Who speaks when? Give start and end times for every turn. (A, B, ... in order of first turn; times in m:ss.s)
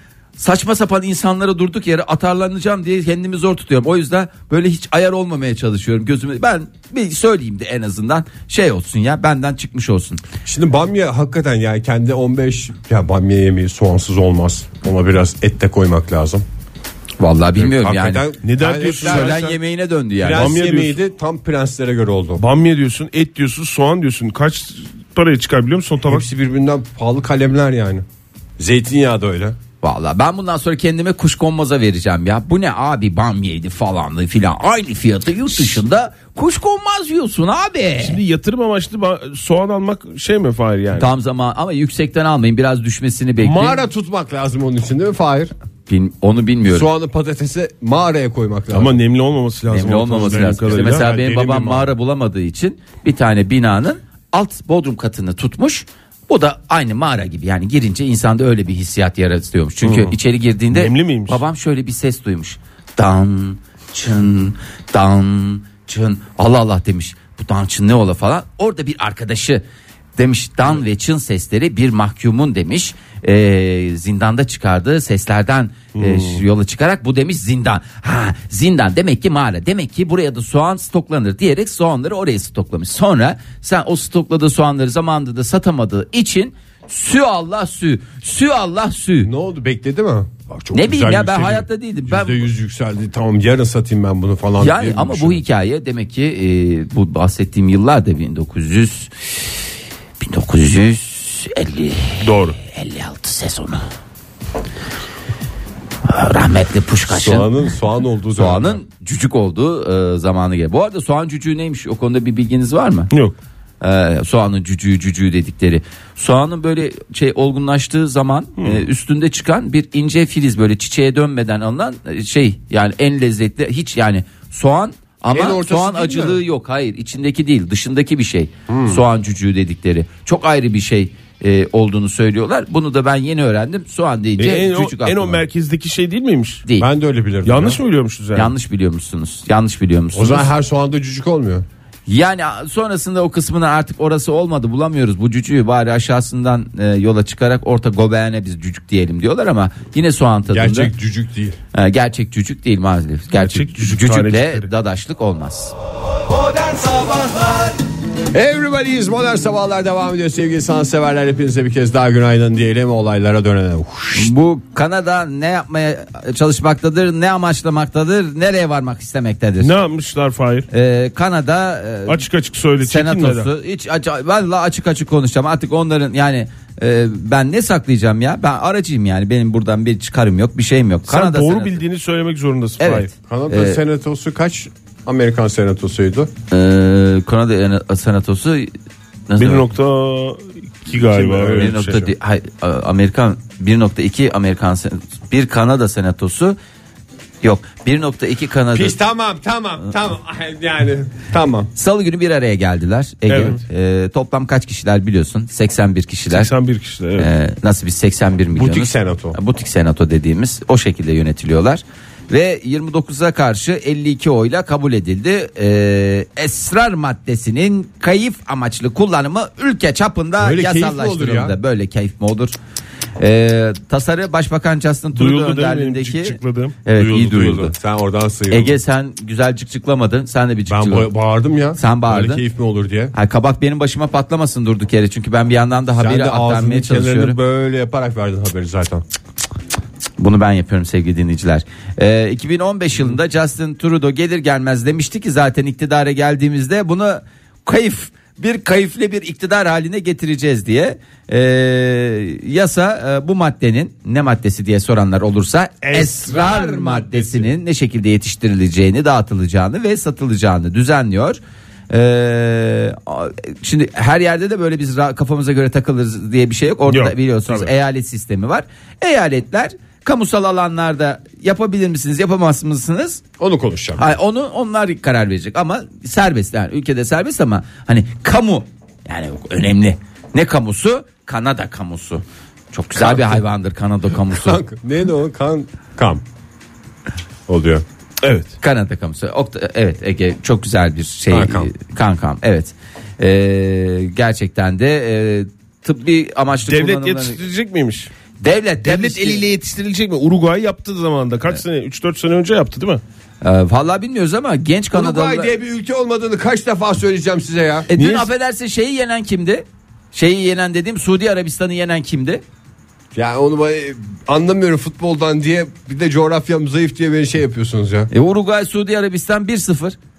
0:00.4-0:10.2 A
0:10.4-0:16.5 B
0:17.2-0:18.3 A
0:17.6-0:19.6 B
0:18.4-0:19.5 C
0:18.8-0:20.5 A
0:20.2-0:22.4 B
0:20.3-0:21.0 C
0:22.4-0:26.2 C
0:26.0-0:28.0 B
0:28.6-0:29.6 B
0:29.8-0:38.2 A
0:38.0-0:41.1 C
0:41.0-0:43.8 A
0:43.4-0:45.5 B
0:45.9-0:46.9 A
0:46.7-0:49.0 B
0:48.7-0:51.1 C
0:49.7-1:09.6 A
0:50.1-0:51.9 B
0:59.8-1:00.2 C
1:00.7-1:01.4 C
1:10.2-1:29.3 A
1:16.0-1:16.4 C
1:29.2-1:35.4 B
1:30.7-1:32.5 A
1:34.6-1:39.1 A
1:40.2-1:43.8 A
1:42.2-1:42.6 C
1:46.1-1:47.5 A
1:47.1-1:48.8 B
1:48.4-1:53.1 A
1:53.8-2:15.4 A
2:05.3-2:06.4 B
2:08.7-2:09.0 B
2:14.4-2:16.6 C
2:16.8-2:17.8 B
2:17.4-2:18.5 C
2:18.4-2:20.5 A
2:20.1-2:21.7 B
2:22.1-2:30.9 A
2:30.5-2:31.6 B
2:31.7-2:35.7 A
2:33.4-2:34.7 C
2:38.3-2:44.3 B
2:44.2-2:49.7 A
2:49.6-2:50.7 C
2:50.7-2:52.2 A
2:52.1-2:53.5 C
2:52.8-3:01.8 A
3:01.1-3:03.1 C
3:02.8-3:03.8 A
3:03.2-3:06.3 B
3:06.5-3:08.7 A
3:09.3-3:09.7 A
3:09.4-3:12.1 C
3:11.2-3:16.6 A
3:17.4-3:19.0 A
3:18.7-3:21.7 B
3:21.8-3:26.5 A
3:23.3-3:23.6 C
3:26.3-3:27.3 C
3:27.2-3:42.6 A
3:28.5-3:29.4 B
3:40.4-3:41.6 B
3:43.2-3:47.7 A
3:45.2-3:46.8 C
3:46.9-3:48.8 B
3:48.5-3:51.1 A
3:50.7-3:53.1 B
3:51.8-3:52.4 A
3:53.1-3:57.4 A
3:56.0-3:59.0 B
4:00.2-4:21.4 A
4:15.8-4:16.4 C
4:16.2-4:17.5 B
4:21.9-4:33.2 A
4:26.9-4:27.7 C
4:33.4-4:34.1 B
4:34.0-4:44.6 A
4:43.0-4:43.4 B
4:44.2-4:46.2 B
4:47.5-4:47.8 B
4:48.2-4:48.5 C
4:48.6-4:57.4 A
4:51.3-4:51.7 B
4:56.7-4:58.1 C
4:58.4-4:59.5 A
4:58.8-5:03.0 C
5:03.4-5:05.5 A
5:04.9-5:07.9 B
5:07.9-5:12.4 A
5:08.0-5:08.3 C
5:13.1-5:18.1 B
5:18.1-5:20.0 A